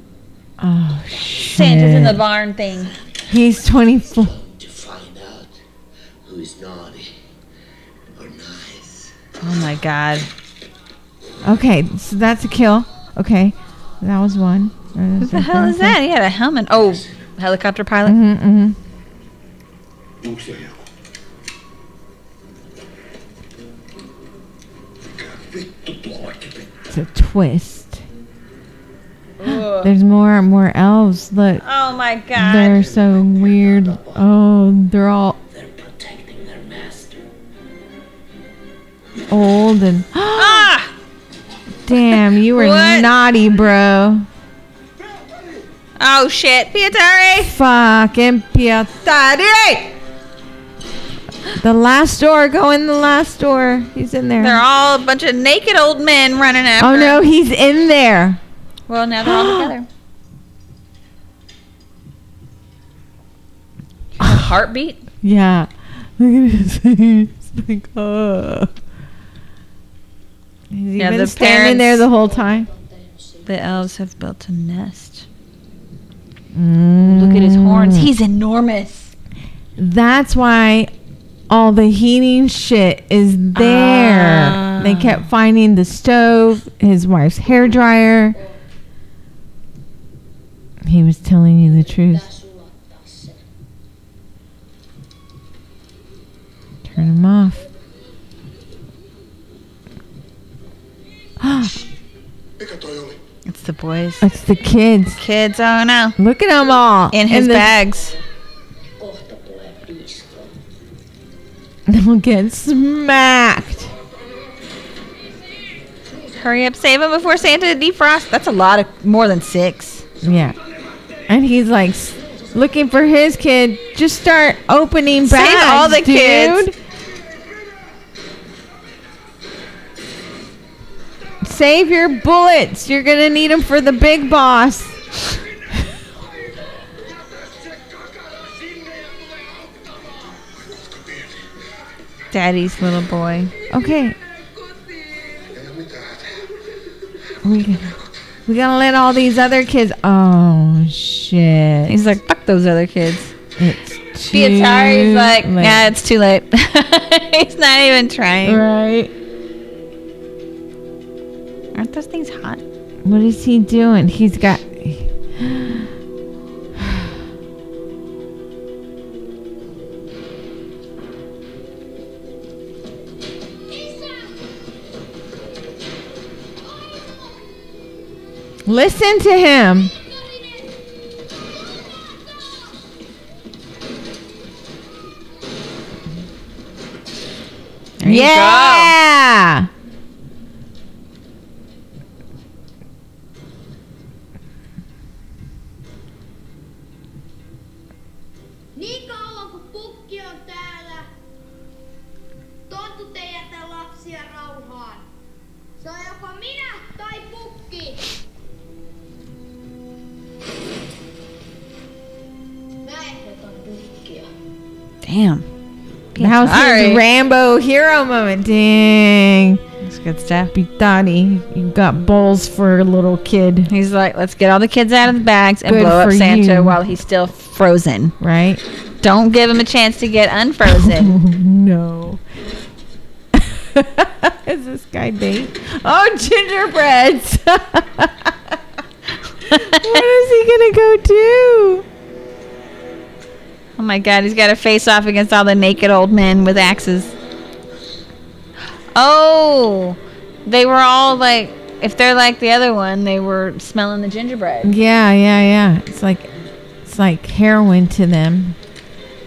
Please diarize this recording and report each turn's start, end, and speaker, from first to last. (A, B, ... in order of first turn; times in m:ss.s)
0:00.6-0:02.2 A
0:01.4-0:02.9 B
0:02.7-0:05.5 C
0:03.3-0:04.3 A
0:06.2-0:07.1 C
0:08.1-0:09.1 C
0:09.4-0:10.3 B
0:11.4-0:16.0 A
0:15.2-0:18.2 B
0:18.0-0:18.8 A
0:20.2-0:20.8 D
0:25.2-0:26.7 D
0:26.9-0:28.0 A
0:29.4-0:29.9 B
0:29.4-0:31.6 A
0:31.6-0:32.8 B
0:32.3-0:35.4 A
0:32.8-0:34.1 D
0:35.5-0:37.2 C
0:39.3-0:40.7 A
0:40.3-0:40.9 B
0:41.8-0:44.3 A
0:42.4-0:43.1 B
0:45.0-0:45.7 D
0:46.0-0:47.5 B
0:47.4-0:49.9 A
0:51.6-0:54.6 A
0:54.4-0:57.2 B
0:56.8-0:58.4 A
0:58.9-0:59.9 B
0:59.2-0:59.7 A
1:04.2-1:05.0 B
1:05.2-1:08.7 A
1:10.7-1:12.7 A
1:11.0-1:12.0 B
1:12.1-1:13.9 E
1:13.4-1:15.2 B
1:16.5-1:18.1 A
1:17.0-1:19.1 B
1:19.8-1:20.9 A
1:21.5-1:28.4 A
1:23.5-1:25.2 B
1:30.8-1:32.2 A
1:31.6-1:33.4 E
1:36.8-1:37.6 A
1:41.4-1:41.7 A
1:42.6-1:43.2 D
1:43.4-1:44.2 B
1:44.2-1:45.2 A
1:45.2-1:46.2 B
1:46.2-1:47.8 A
1:47.1-1:48.1 B
1:47.9-1:48.2 E
1:49.0-1:50.5 E
1:51.9-1:53.9 A
1:56.3-2:00.0 B
2:00.2-2:00.6 A
2:00.3-2:01.2 D
2:01.3-2:06.8 A
2:05.2-2:06.6 B
2:07.0-2:08.0 D
2:11.4-2:15.1 A
2:15.9-2:21.5 D
2:22.3-2:23.5 B
2:23.7-2:24.2 A
2:25.5-2:26.5 D
2:27.4-2:27.9 A
2:28.4-2:32.2 A
2:31.9-2:33.3 B
2:33.6-2:35.9 A
2:34.3-2:38.6 B
2:38.4-2:39.1 A
2:41.7-2:42.6 B
2:43.0-2:45.9 A
2:46.8-2:47.1 A
2:53.7-2:54.5 E
2:56.6-2:57.6 E
2:58.6-2:59.9 A
3:00.0-3:00.7 E
3:01.3-3:02.6 E
3:08.0-3:08.9 B
3:08.0-3:09.7 A
3:18.7-3:21.1 E
3:22.7-3:25.0 E
3:25.8-3:28.1 E
3:32.8-3:34.3 E
3:35.0-3:35.4 B
3:36.1-3:37.0 B
3:36.2-3:39.6 A
3:39.8-3:40.5 B
3:40.5-3:43.7 A
3:43.7-3:48.1 B
3:45.6-3:46.8 A
3:48.2-3:48.6 A
3:49.0-3:51.2 B
3:50.6-3:52.2 A
3:53.3-3:58.6 A
3:59.4-4:01.8 A
3:59.5-4:00.0 B
4:03.8-4:07.1 B
4:08.9-4:14.7 B
4:14.6-4:16.3 A
4:16.8-4:18.6 A